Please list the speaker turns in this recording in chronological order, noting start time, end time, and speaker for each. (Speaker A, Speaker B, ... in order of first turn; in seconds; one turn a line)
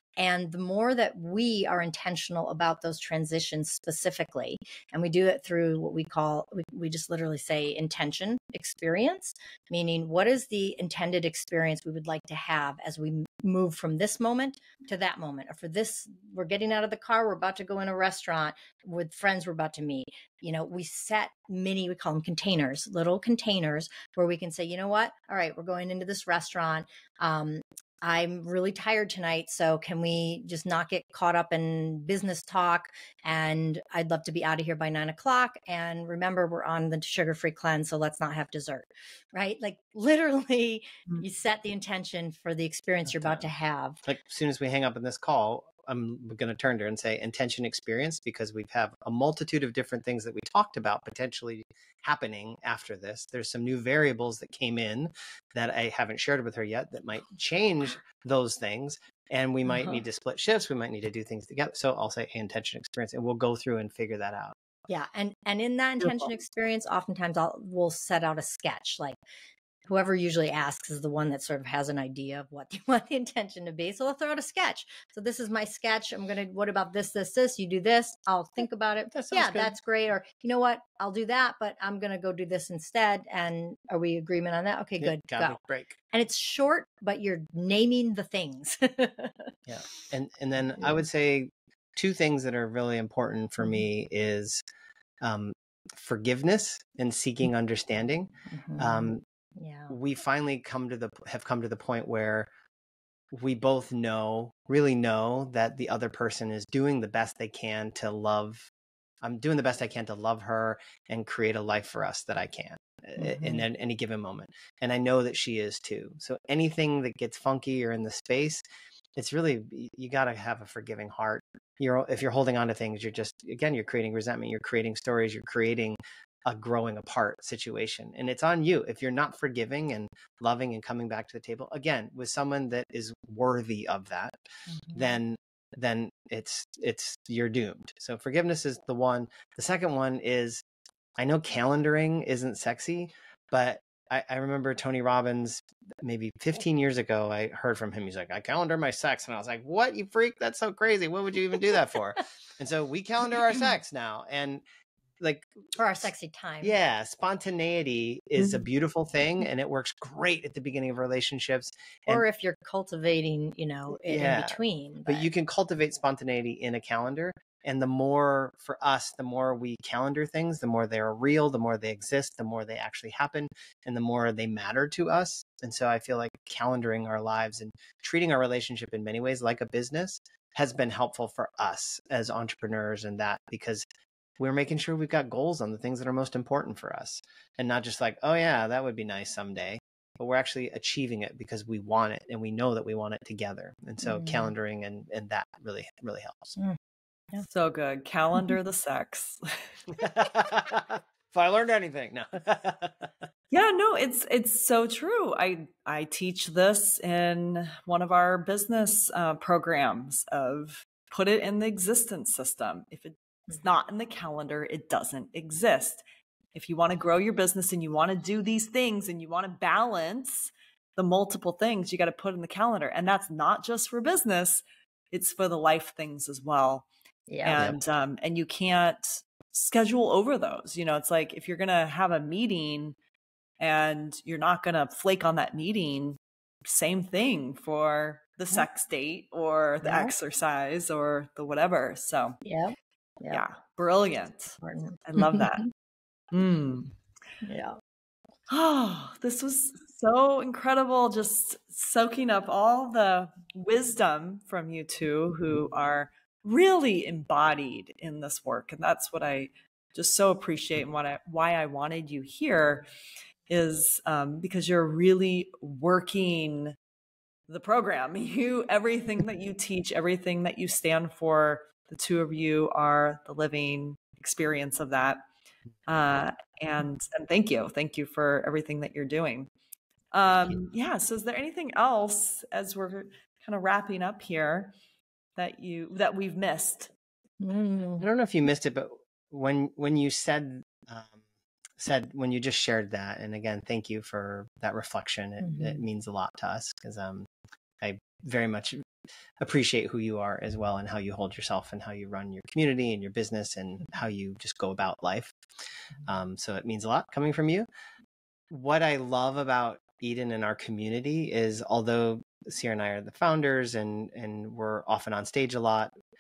Speaker A: 0.2-44.0
Speaker B: 43.1-43.4
Speaker B: 44.0-64.5
Speaker A: 64.9-69.2
Speaker C: 66.0-66.3
Speaker A: 69.9-85.6
Speaker B: 79.1-79.8
Speaker B: 85.0-86.0
Speaker A: 86.1-89.5
Speaker B: 89.7-94.6
Speaker B: 95.2-99.2
Speaker A: 98.5-99.9
Speaker B: 99.9-102.5
Speaker B: 103.3-108.7
Speaker B: 109.2-118.6
Speaker A: 113.2-113.7
Speaker B: 119.2-134.4
Speaker A: 134.7-135.0
Speaker B: 134.9-140.6
Speaker B: 141.2-154.6
Speaker B: 155.2-156.1
Speaker A: 155.8-156.8
Speaker B: 156.6-162.2
Speaker A: 162.1-165.3
Speaker B: 163.9-183.9
Speaker B: 184.4-196.6
Speaker A: 194.0-194.5
Speaker C: 197.5-199.6
Speaker B: 199.9-203.1
Speaker C: 203.5-216.0
Speaker C: 216.6-226.9
Speaker A: 227.3-227.7
Speaker C: 227.4-233.0
Speaker B: 227.5-227.8
Speaker C: 233.6-242.4
Speaker A: 239.8-240.1
Speaker A: 242.4-243.4
Speaker C: 243.3-245.7
Speaker A: 244.6-245.5
Speaker C: 246.3-246.9
Speaker A: 247.4-247.8
Speaker C: 248.5-262.9
Speaker C: 263.5-266.8
Speaker C: 267.5-275.2
Speaker C: 275.9-279.5
Speaker C: 280.1-284.8
Speaker C: 285.4-286.9
Speaker A: 287.4-288.1
Speaker B: 288.0-291.2
Speaker B: 291.8-297.3
Speaker A: 295.4-295.8
Speaker B: 297.8-298.8
Speaker B: 299.4-305.4
Speaker B: 306.1-307.7
Speaker B: 308.5-315.9